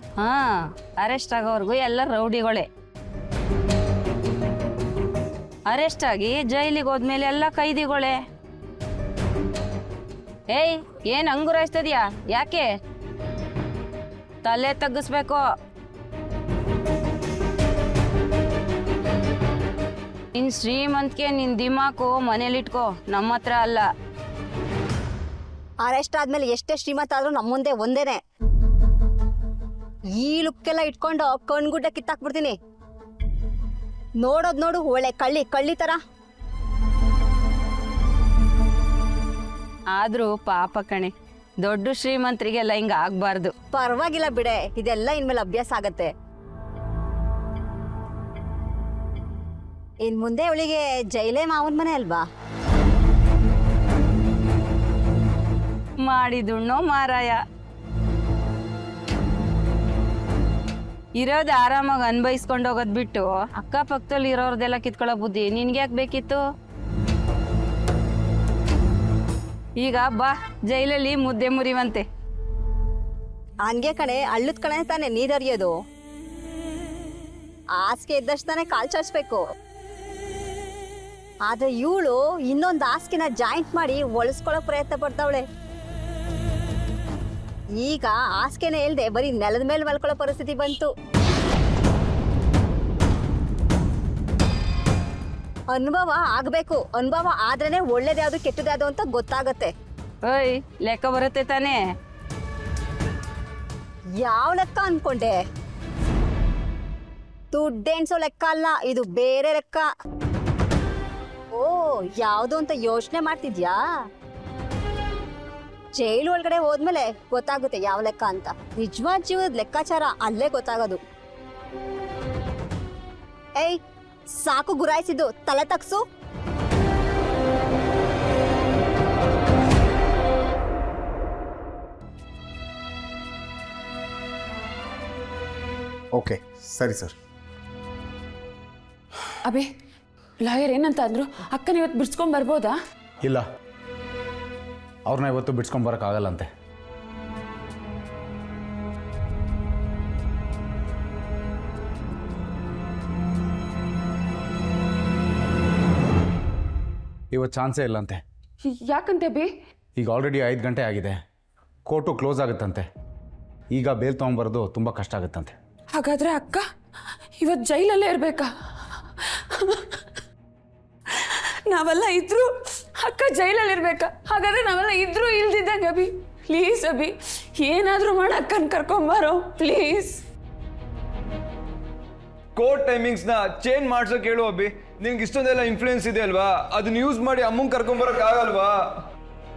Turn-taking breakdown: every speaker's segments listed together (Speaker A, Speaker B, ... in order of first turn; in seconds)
Speaker A: 0.2-2.7, 5.7-8.2, 10.5-12.7, 14.4-15.4, 20.4-23.9, 39.9-41.1, 41.6-43.5, 56.0-57.4, 61.2-66.4, 69.8-72.0, 100.2-101.8
Speaker B: 25.8-28.2, 30.2-32.5, 34.2-36.0, 43.7-46.1, 50.0-52.2, 73.6-75.7, 77.8-79.4, 81.5-85.4, 87.8-90.9, 95.7-99.7, 104.2-105.4, 107.5-109.9, 111.5-113.8, 116.0-121.0, 124.3-126.0
Speaker C: 136.1-137.1, 145.1-146.5, 157.3-158.2, 160.0-161.2, 161.9-162.8, 163.7-165.5
Speaker D: 139.4-139.7, 140.4-142.8, 158.6-159.5, 165.9-166.7, 167.4-170.0, 171.1-180.2
Speaker E: 182.6-189.0